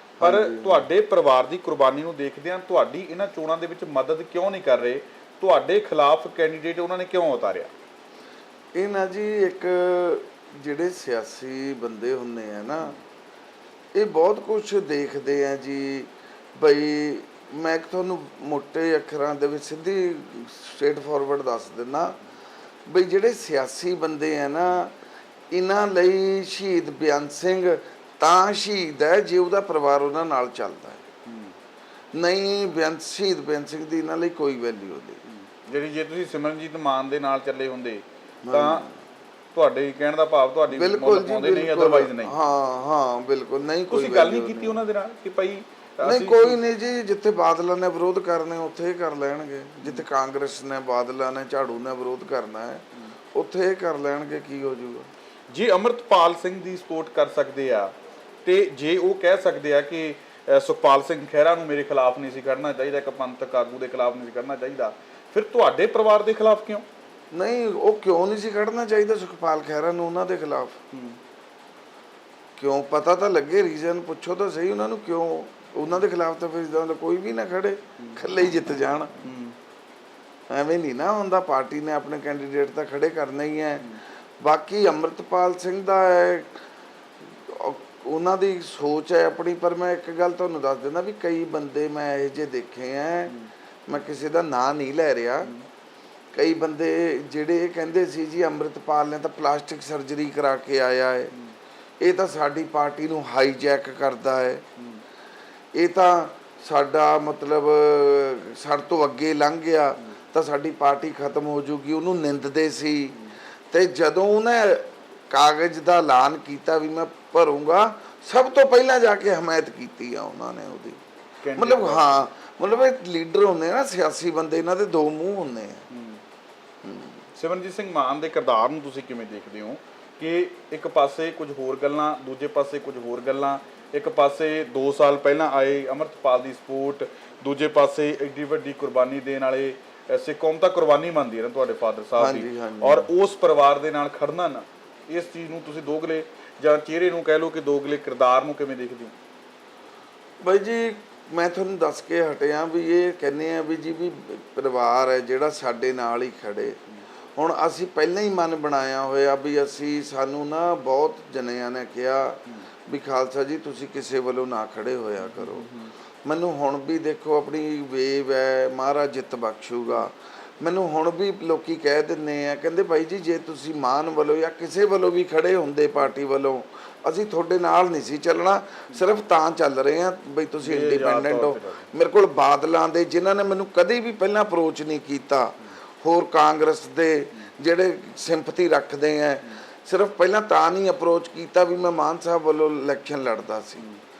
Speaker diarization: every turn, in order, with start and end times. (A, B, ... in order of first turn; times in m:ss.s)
0:00.2-0:00.9 A
0:00.2-0:07.7 B
0:08.8-0:13.0 A
0:14.0-0:22.2 A
0:22.9-0:24.9 A
0:25.5-0:31.0 A
0:31.3-0:31.5 B
0:32.2-0:35.2 A
0:35.3-0:38.9 B
0:38.4-0:38.9 A
0:39.5-0:42.4 B
0:40.7-0:44.8 A
0:43.9-0:46.6 B
0:46.0-0:55.1 A
0:55.5-0:57.9 B
0:58.4-1:06.9 B
1:07.3-1:10.8 A
1:10.9-1:11.2 B
1:12.6-1:19.2 A
1:19.2-1:19.6 B
1:20.5-1:23.8 A
1:24.4-1:26.6 A
1:27.4-1:33.3 A
1:33.9-1:35.5 A
1:36.3-1:41.3 A
1:42.0-1:44.6 A
1:44.8-1:45.0 B
1:45.8-1:53.2 A
1:53.7-2:01.0 A
2:01.4-2:02.1 B
2:01.6-2:05.8 A
2:05.9-2:06.2 B
2:06.8-2:07.2 A
2:07.4-2:29.1 B
2:22.2-2:23.1 A
2:30.4-2:36.8 A
2:37.4-2:45.7 A
2:45.3-2:45.9 B
2:46.2-3:13.8 A
3:00.6-3:01.9 B